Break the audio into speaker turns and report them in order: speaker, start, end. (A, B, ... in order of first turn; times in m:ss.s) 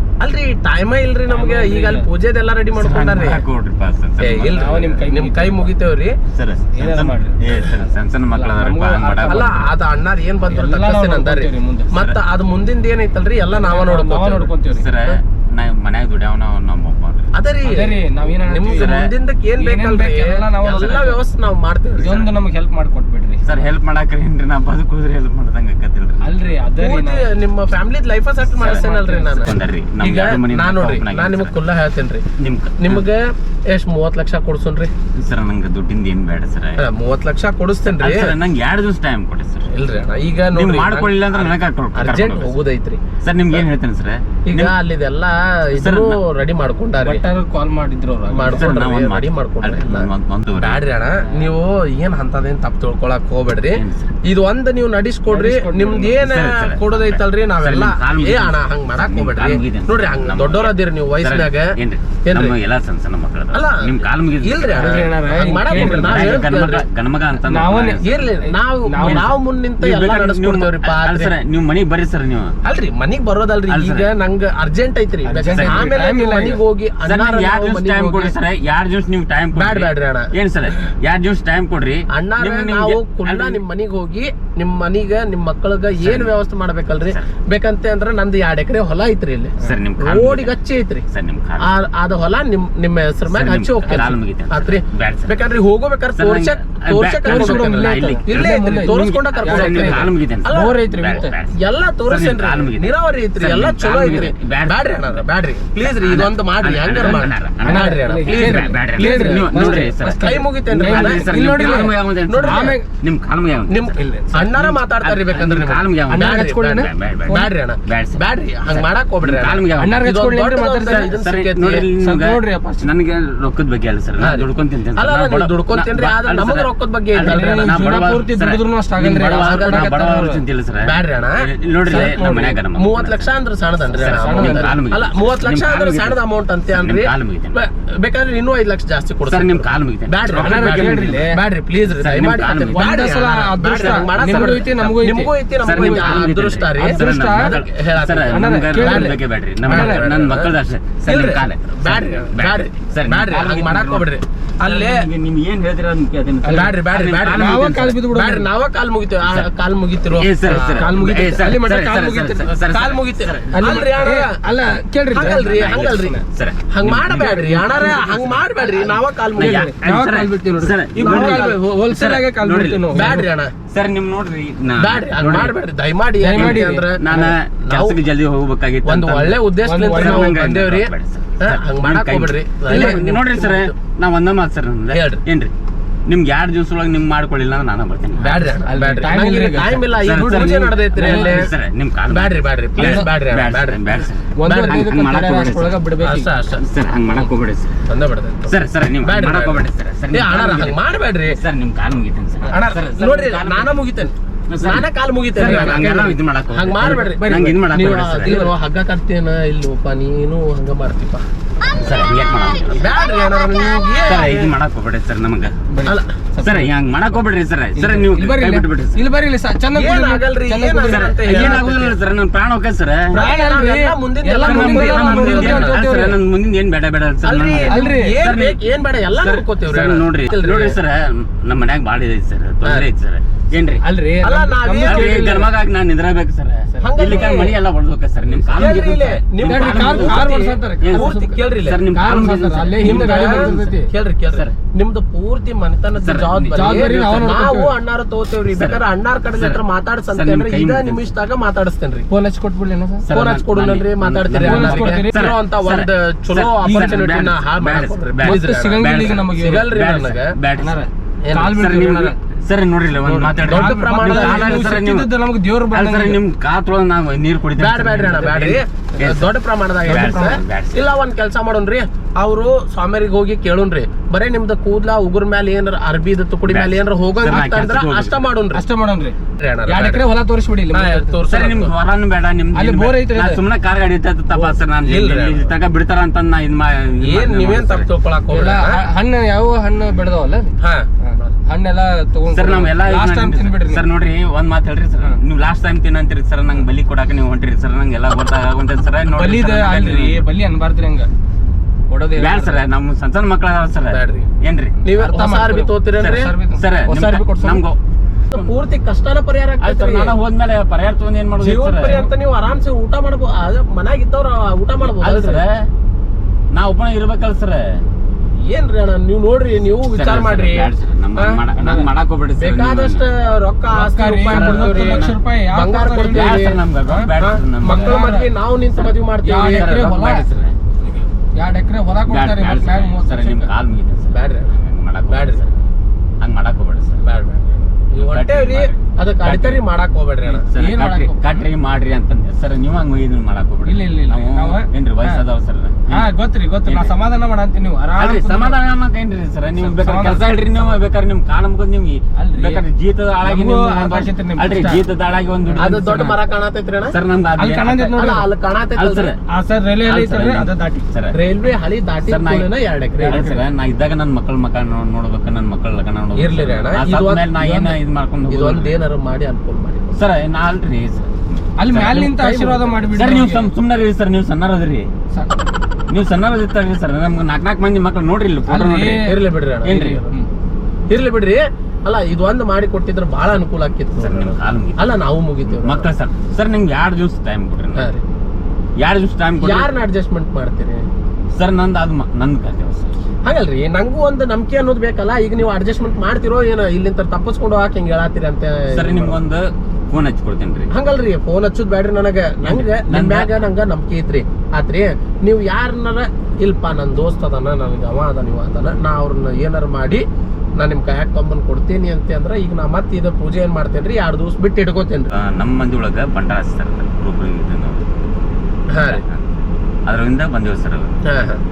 0:00.2-0:03.4 A
0:01.3-0:02.1 B
0:02.8-0:04.9 C
0:04.2-0:06.2 A
0:04.5-0:05.7 B
0:06.3-0:09.6 C
0:06.8-0:09.7 B
0:09.3-0:14.5 A
0:10.5-0:12.0 B
0:13.5-0:14.9 B
0:14.7-0:17.3 C
0:17.3-0:22.3 A
0:17.6-0:18.9 B
0:18.6-0:19.1 C
0:19.6-0:21.2 B
0:22.0-0:23.7 B
0:23.4-0:26.3 C
0:26.2-0:27.2 B
0:26.8-0:32.2 A
0:28.5-0:29.5 B
0:29.4-0:31.5 C
0:32.4-0:33.1 C
0:32.8-0:34.9 A
0:35.2-0:36.8 C
0:36.8-0:38.3 A
0:38.0-0:39.7 C
0:39.7-0:43.0 A
0:40.5-0:42.5 C
0:43.2-0:44.7 C
0:44.5-0:47.2 A
0:45.7-0:46.2 C
0:47.0-0:48.7 B
0:48.3-1:02.5 A
0:48.5-0:50.8 C
0:53.7-0:54.1 C
0:55.3-0:56.2 B
0:56.2-1:08.3 C
1:03.5-1:06.8 A
1:04.8-1:06.5 B
1:07.4-1:09.3 B
1:08.0-1:11.3 A
1:09.0-1:12.6 C
1:12.6-1:18.4 A
1:13.7-1:14.1 C
1:15.2-1:16.6 B
1:15.5-1:16.0 C
1:17.0-1:23.6 C
1:19.6-1:20.3 A
1:22.1-1:31.1 A
1:26.0-1:26.3 C
1:29.6-1:30.6 C
1:31.1-1:31.7 C
1:31.6-1:51.8 A
1:33.3-1:35.5 C
1:36.2-1:45.2 C
1:37.2-1:41.3 B
1:45.8-1:53.8 C
1:47.6-1:52.9 B
1:52.3-1:52.8 A
1:53.7-2:01.9 A
1:53.9-1:54.4 B
1:54.4-2:00.0 C
1:56.1-1:57.5 B
1:59.8-2:01.1 B
2:00.8-2:13.3 C
2:02.0-2:02.9 B
2:04.2-2:08.1 A
2:07.2-2:10.4 B
2:09.2-2:10.0 A
2:10.8-2:30.5 A
2:11.9-2:12.6 B
2:14.0-2:16.2 C
2:14.0-2:14.7 B
2:16.7-2:17.6 C
2:19.3-2:21.3 C
2:20.4-2:21.4 B
2:22.0-2:22.9 C
2:22.7-2:27.5 B
2:24.2-2:24.5 C
2:25.6-2:38.0 C
2:28.3-2:30.1 B
2:31.1-2:35.1 A
2:36.4-2:38.5 B
2:36.5-2:40.9 A
2:40.0-2:43.6 C
2:40.5-2:42.5 B
2:42.6-2:44.4 A
2:43.5-2:45.5 B
2:45.1-2:49.7 A
2:45.2-2:48.0 C
2:47.1-2:48.3 B
2:49.4-2:51.6 C
2:49.4-2:53.2 B
2:51.0-2:52.3 A
2:52.4-2:53.2 C
2:52.9-2:53.5 A
2:53.7-2:55.5 C
2:54.8-2:58.0 A
2:56.2-2:57.3 B
2:56.4-3:05.5 C
2:58.8-3:03.7 A
2:59.6-3:00.4 B
3:02.7-3:03.0 B
3:04.9-3:05.2 A
3:06.1-3:08.5 C
3:08.2-3:11.5 A
3:08.6-3:11.5 B
3:10.0-3:15.8 C
3:12.1-3:13.9 A
3:12.8-3:13.1 B
3:14.4-3:16.3 B
3:14.4-3:14.8 A
3:16.0-3:16.6 A
3:16.6-3:17.8 C
3:17.9-3:21.4 A
3:18.5-3:23.8 C
3:22.4-3:31.2 A
3:24.5-3:28.4 C
3:25.4-3:25.9 B
3:28.2-3:28.5 B
3:31.7-3:32.9 C
3:32.6-3:34.5 A
3:34.1-3:35.6 C
3:35.7-3:36.7 B
3:36.4-3:39.0 C
3:37.8-3:41.6 B
3:39.7-3:42.0 A
3:40.8-3:43.2 C
3:43.1-3:45.8 A
3:43.1-3:46.2 B
3:44.4-3:53.8 C
3:47.2-3:50.8 A
3:47.7-3:48.2 B
3:53.8-3:55.5 B
3:54.2-3:55.3 A
3:54.8-4:03.8 C
3:56.7-3:57.5 B
3:56.8-3:57.6 A
3:58.4-3:58.8 B
3:58.5-4:01.8 A
3:59.4-4:03.9 B
4:02.8-4:12.1 A
4:06.0-4:07.2 C
4:06.5-4:07.7 B
4:08.5-4:08.8 C
4:09.3-4:11.1 C
4:12.1-4:13.1 B
4:13.0-4:20.8 C
4:13.1-4:20.4 A
4:14.4-4:15.3 B
4:16.6-4:17.0 B
4:18.2-4:19.7 B
4:20.6-4:22.2 B
4:21.2-4:21.6 A
4:21.5-4:25.1 C
4:23.0-4:26.2 B
4:23.4-4:24.7 A
4:25.7-4:28.2 C
4:27.6-4:38.6 A
4:27.9-4:28.6 B
4:29.0-4:29.3 C
4:29.8-4:30.9 C
4:29.9-4:30.4 B
4:36.5-4:38.2 C
4:38.5-4:39.2 B
4:39.4-4:40.0 A
4:39.7-4:41.2 B
4:40.7-4:41.7 A
4:41.3-4:47.9 C
4:42.5-4:43.4 B
4:44.8-4:45.5 A
4:47.0-4:48.8 A
4:48.3-4:53.9 B
4:50.6-4:51.3 A
4:52.3-5:00.2 C
4:59.1-5:01.1 B
5:01.9-5:02.6 B
5:02.2-5:04.8 C
5:03.9-5:04.3 A
5:04.8-5:06.3 A
5:05.0-5:07.6 B
5:06.5-5:07.8 C
5:08.3-5:10.1 A
5:09.6-5:12.0 C
5:11.4-5:15.4 A
5:11.6-5:12.1 B
5:14.8-5:15.7 C
5:16.5-5:17.8 C
5:18.5-5:21.4 A
5:19.9-5:23.0 C
5:21.5-5:21.9 B
5:22.4-5:26.6 A
5:23.7-5:28.3 B
5:24.3-5:25.2 C
5:26.0-5:28.0 C
5:27.2-5:29.7 A
5:28.7-5:30.6 C
5:29.2-5:30.3 B
5:31.4-5:33.5 B
5:32.1-5:35.6 C
5:34.1-5:34.5 A
5:35.1-5:35.5 A
5:36.2-5:37.0 C
5:37.0-5:40.5 A
5:38.0-5:39.6 C
5:40.4-5:41.4 B
5:40.5-5:46.1 C
5:43.6-5:45.2 B
5:45.9-5:48.6 B
5:46.6-5:46.9 C
5:48.0-5:56.2 C
5:49.6-5:50.8 B
5:52.2-5:52.6 B
5:53.2-5:54.9 B
5:55.4-5:56.1 B
5:55.6-5:57.0 A
5:56.9-5:58.0 C
5:57.4-5:58.2 B
5:58.0-5:59.1 A
5:58.8-5:59.2 C
5:59.3-6:00.8 B
5:59.8-6:01.1 C
6:01.1-6:03.3 A
6:02.0-6:02.5 C
6:03.0-6:03.4 B
6:03.1-6:08.7 C
6:06.2-6:07.8 A
6:08.3-6:10.0 A
6:10.0-6:11.5 C
6:11.6-6:13.5 B
6:11.7-6:13.0 A
6:12.9-6:14.9 C
6:15.1-6:15.5 B
6:15.9-6:19.1 C
6:18.5-6:19.2 B
6:19.0-6:20.1 A
6:19.6-6:20.0 C
6:20.9-6:25.9 A
6:24.0-6:27.9 C
6:27.8-6:28.0 A
6:28.8-6:29.7 C
6:29.4-6:30.9 A
6:31.3-6:33.0 C
6:33.2-6:39.2 A
6:38.7-6:40.7 C
6:40.7-6:50.0 A
6:42.4-6:43.3 C
6:50.6-6:55.1 A
6:55.2-6:57.9 C
6:58.7-6:59.0 A
6:58.8-7:01.0 C
7:01.1-7:01.4 A